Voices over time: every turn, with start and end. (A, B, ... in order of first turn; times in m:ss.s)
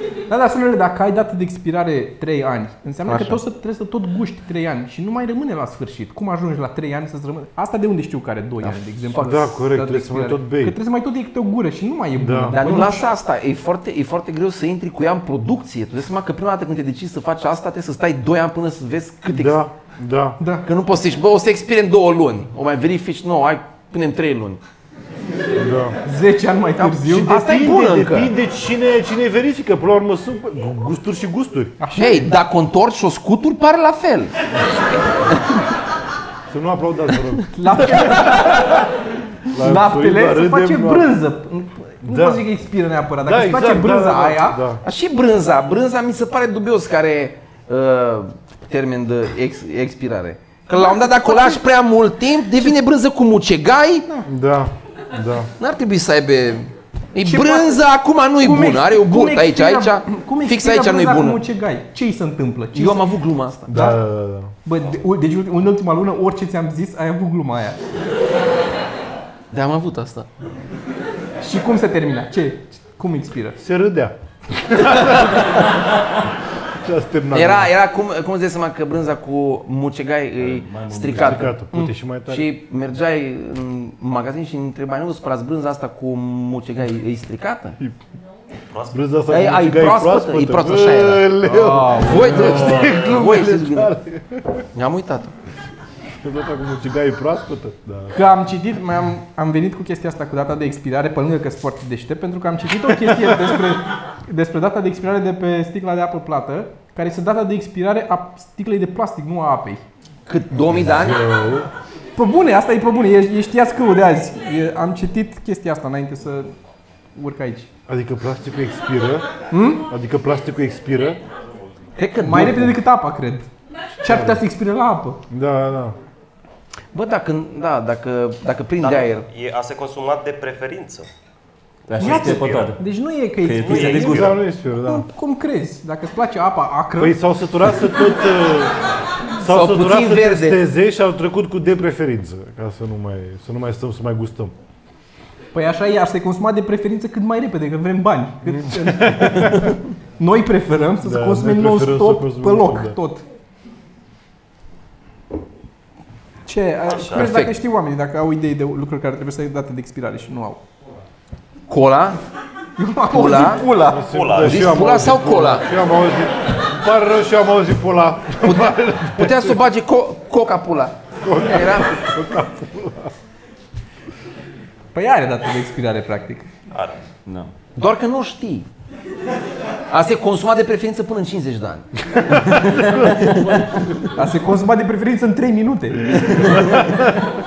0:00.3-0:13.1 A
0:03.0-0:03.4 B
0:09.1-0:10.8 C
0:12.2-0:12.6 C
0:12.5-0:19.6 B
0:19.3-0:20.4 C
0:20.4-0:20.7 A
0:20.6-0:24.6 B
0:25.6-0:26.0 C
0:26.0-0:27.3 A
0:26.8-0:28.3 B
0:27.1-0:31.8 C
0:31.8-0:32.3 A
0:31.9-0:34.3 B
0:36.5-0:38.8 C
0:37.5-0:38.8 A
0:39.5-0:41.1 C
0:39.6-0:44.6 A
0:42.0-0:42.4 C
0:43.2-0:44.8 C
0:44.8-0:54.1 B
0:50.7-0:51.6 A
0:54.2-0:55.5 C
0:55.6-1:01.4 B
0:57.2-0:57.8 A
0:58.4-1:03.1 A
1:02.7-1:03.9 B
1:03.7-1:04.5 C
1:03.7-1:04.0 A
1:04.6-1:07.8 A
1:09.5-1:10.3 B
1:11.4-1:13.6 A
1:13.6-1:15.7 C
1:16.7-1:17.7 C
1:17.3-1:27.8 B
1:20.4-1:21.5 D
1:21.1-1:22.4 C
1:28.7-1:29.0 E
1:28.9-1:34.6 C
1:29.3-1:33.9 B
1:31.4-1:32.7 A
1:34.7-1:35.3 B
1:36.2-1:38.2 C
1:38.1-1:49.8 A
1:43.1-1:43.5 C
1:50.3-1:51.2 B
1:50.7-1:51.7 C
1:52.2-1:56.5 A
1:57.1-1:57.7 A
1:57.9-1:59.3 C
1:59.5-1:59.8 A
1:59.8-2:01.2 C
2:02.0-2:02.7 B
2:02.2-2:03.5 A
2:04.0-2:05.2 A
2:04.0-2:04.4 C
2:05.3-2:06.0 C
2:06.9-2:09.2 B
2:08.8-2:11.1 E
2:11.9-2:12.8 D
2:12.0-2:12.7 E
2:12.0-2:17.2 A
2:13.4-2:14.4 D
2:13.6-2:14.4 E
2:13.9-2:15.1 C
2:17.0-2:18.8 C
2:19.4-2:24.5 C
2:19.4-2:20.6 B
2:25.5-2:33.2 A
2:28.5-2:29.8 C
2:31.0-2:33.0 C
2:36.4-2:40.6 A
2:36.9-2:37.3 E
2:37.1-2:37.5 B
2:41.7-2:42.2 B
2:42.8-2:44.1 A
2:43.1-2:43.7 B
2:43.7-2:49.6 C
2:44.1-2:44.9 E
2:44.3-2:45.6 B
2:48.4-2:52.0 B
2:51.2-2:53.1 C
2:54.9-2:56.5 A
2:56.7-2:57.0 E
2:57.2-2:57.5 D
2:57.8-2:58.7 B
2:59.9-3:01.9 B
3:02.2-3:04.1 C
3:04.1-3:06.5 A
3:06.6-3:06.8 D
3:06.6-3:07.0 C